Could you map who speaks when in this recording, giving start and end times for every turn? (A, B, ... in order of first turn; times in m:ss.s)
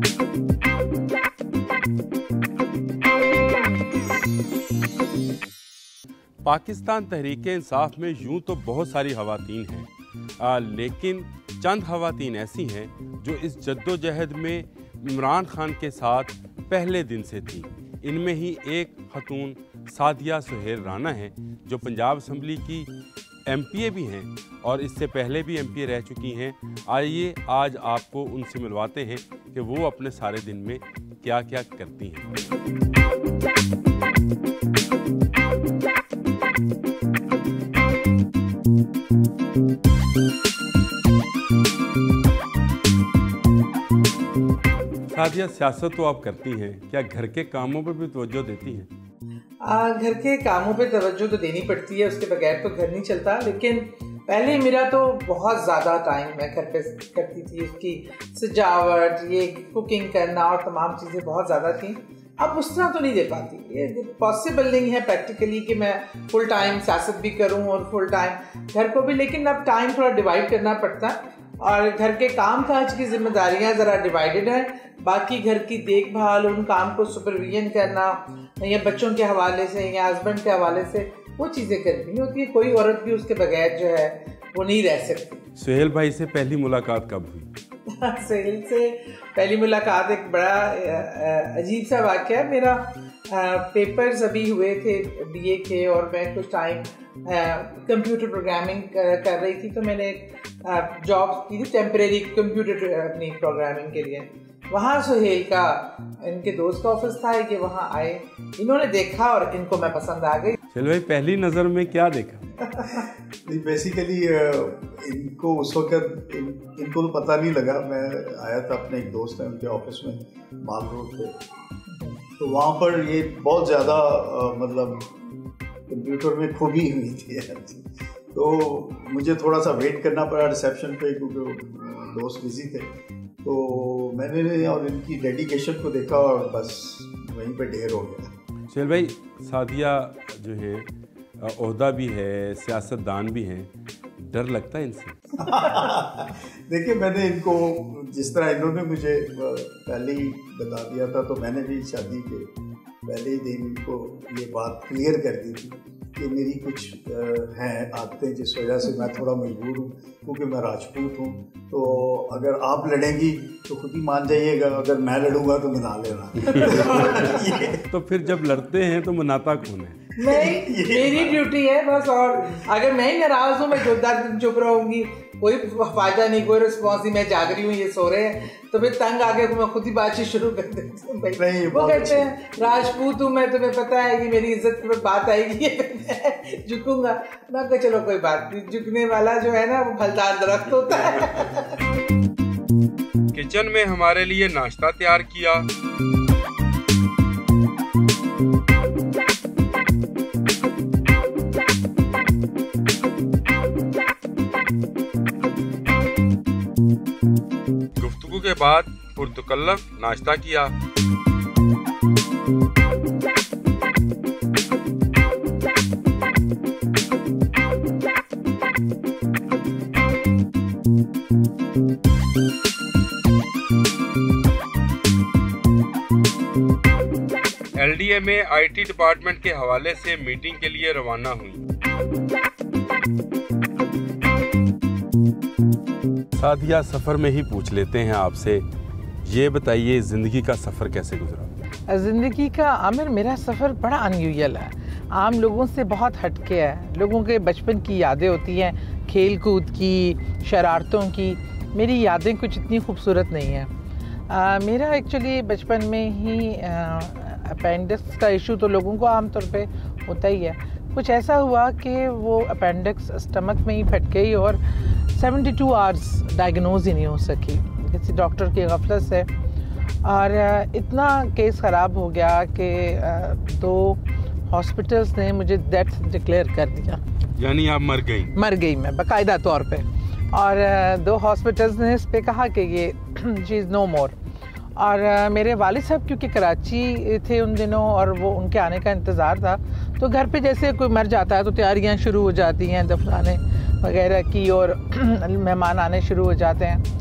0:06.4-0:09.9 A
0:10.4-0:22.9 A
0:23.4-0:32.2 A
0:45.1-0:48.9 A
0:49.6-1:25.4 B
1:25.6-1:27.5 A
1:27.9-1:50.6 B
1:50.7-1:52.5 A
1:52.9-2:01.3 C
2:02.3-2:05.1 C
2:05.9-2:18.3 C
2:18.7-2:20.9 A
2:21.4-2:25.2 A
2:25.4-2:47.8 C
2:46.5-2:46.8 A
2:47.9-2:50.1 A
2:50.2-3:11.7 B
2:50.2-2:51.5 C
3:01.4-3:02.3 C
3:13.3-3:15.6 A
3:28.0-3:30.7 A
3:47.7-3:51.6 A
3:56.4-3:58.6 A
3:59.2-4:01.5 A
4:01.9-4:13.7 B
4:14.3-4:24.6 B
4:25.1-4:29.3 B
4:30.0-4:37.0 B
4:37.4-4:38.3 A
4:38.3-4:44.1 B
4:44.8-4:56.8 B